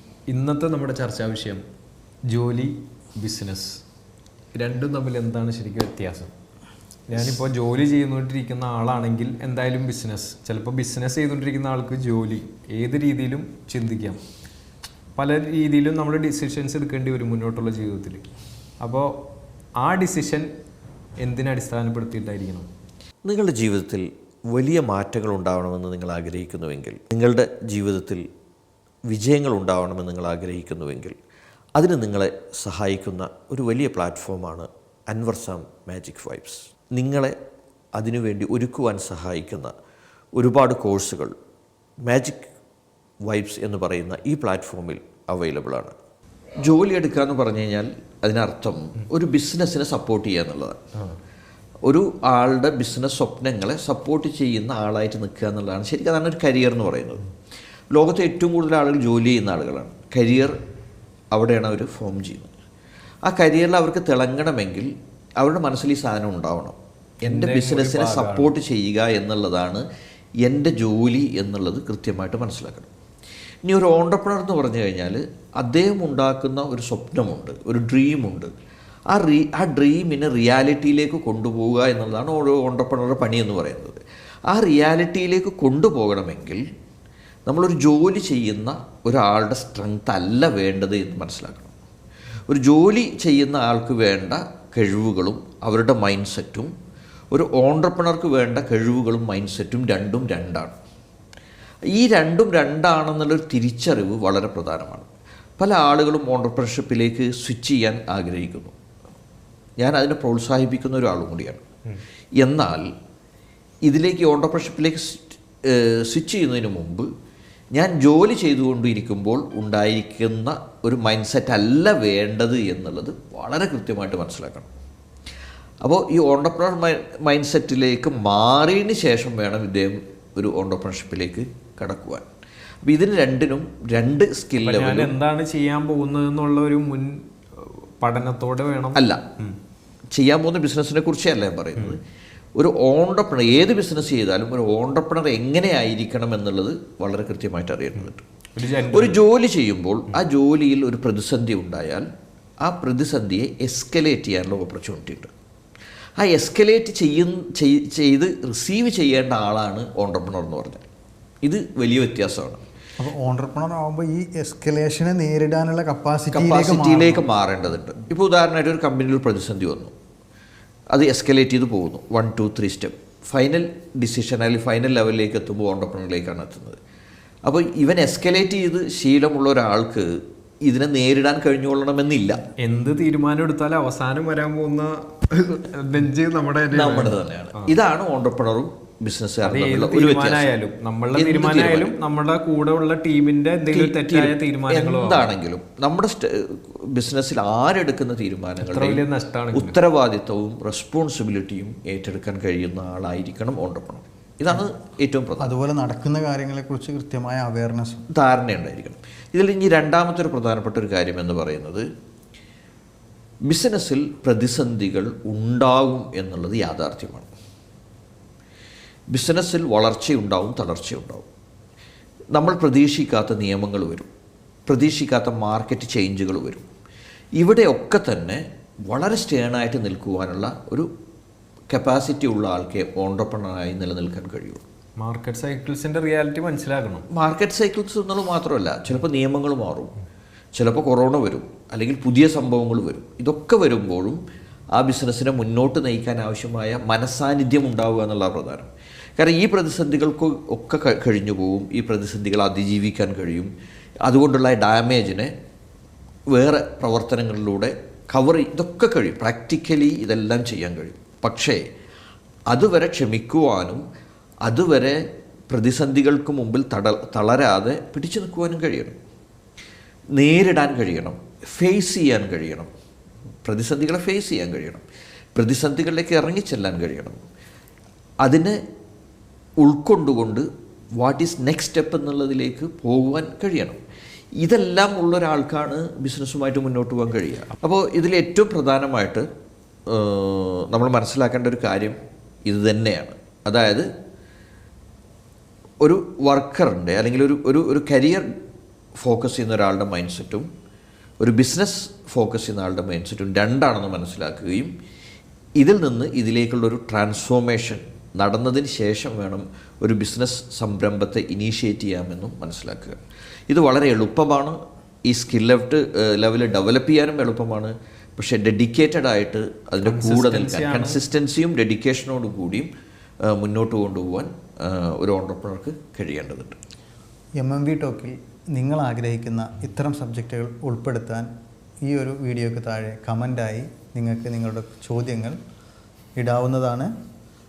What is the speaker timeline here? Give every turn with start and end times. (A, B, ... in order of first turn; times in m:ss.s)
0:00.3-0:01.6 A
0:02.3-0:03.8 A
0:04.5-0:06.3 A
0:07.1-0:14.2 A
0:15.1-0:18.2 A
0:18.8-0:19.1 A
0:19.8-0:20.5 A
0:21.2-0:22.7 A
0:23.2-0:28.2 B
0:29.1-0:31.2 B
0:31.8-0:37.4 B
0:38.0-0:39.7 B
0:40.4-0:41.3 B
0:42.0-0:42.5 B
0:43.2-0:45.9 B
0:46.6-0:50.8 B
0:51.8-0:57.2 B
0:57.9-1:00.6 B
1:01.3-1:02.5 B
1:03.2-1:04.9 B
1:05.4-1:09.8 B
1:07.2-1:08.5 A
1:10.4-1:12.9 B
1:13.6-1:18.5 B
1:19.1-1:26.6 B
1:27.5-1:31.7 B
1:32.5-1:36.7 B
1:37.3-1:40.8 B
1:41.9-1:45.1 B
1:45.6-1:48.7 B
1:49.8-1:51.6 B
1:52.4-1:52.9 B
1:53.9-1:57.1 B
1:57.7-2:04.7 B
2:05.8-2:12.2 B
2:12.8-2:15.1 B
2:14.6-2:19.5 A
2:19.0-2:19.2 B
2:20.1-2:22.0 B
2:22.6-2:28.2 B
2:28.5-2:29.2 A
2:28.9-2:32.0 B
2:32.6-2:35.3 B
2:36.2-2:40.8 B
2:41.4-2:42.6 B
2:43.0-2:47.2 C
2:46.3-2:49.9 B
2:50.9-2:56.8 B
2:57.4-3:02.4 B
3:02.6-3:07.7 A
3:06.7-3:10.5 B
3:09.4-3:15.3 A
3:11.1-3:11.9 B
3:13.7-3:25.5 B
3:18.6-3:19.8 A
3:25.4-3:28.0 C
3:28.1-3:31.8 B
3:33.5-3:37.3 B
3:39.1-3:41.2 B
3:42.3-3:44.1 B
3:44.7-3:46.7 B
3:47.4-3:50.9 B
3:51.7-3:54.6 B
3:55.0-3:57.0 A
3:57.1-3:59.9 B
4:00.6-4:04.2 B
4:04.7-4:13.5 B
4:14.0-4:15.3 B
4:16.3-4:21.6 B
4:22.5-4:23.8 B
4:24.4-4:25.0 B
4:25.5-4:29.0 B
4:30.2-4:32.7 B
4:33.4-4:34.8 B
4:35.3-4:37.2 B
4:38.2-4:38.6 B
4:39.6-4:40.4 B
4:41.0-4:43.8 B
4:44.4-4:49.2 B
4:49.9-4:53.9 B
4:55.8-4:58.3 B
4:59.0-5:00.5 B
5:01.2-5:04.7 B
5:05.6-5:13.0 B
5:13.5-5:22.7 B
5:19.8-5:21.0 A
5:23.3-5:26.6 B
5:27.4-5:31.3 C
5:31.8-5:35.4 C
5:36.2-5:36.9 C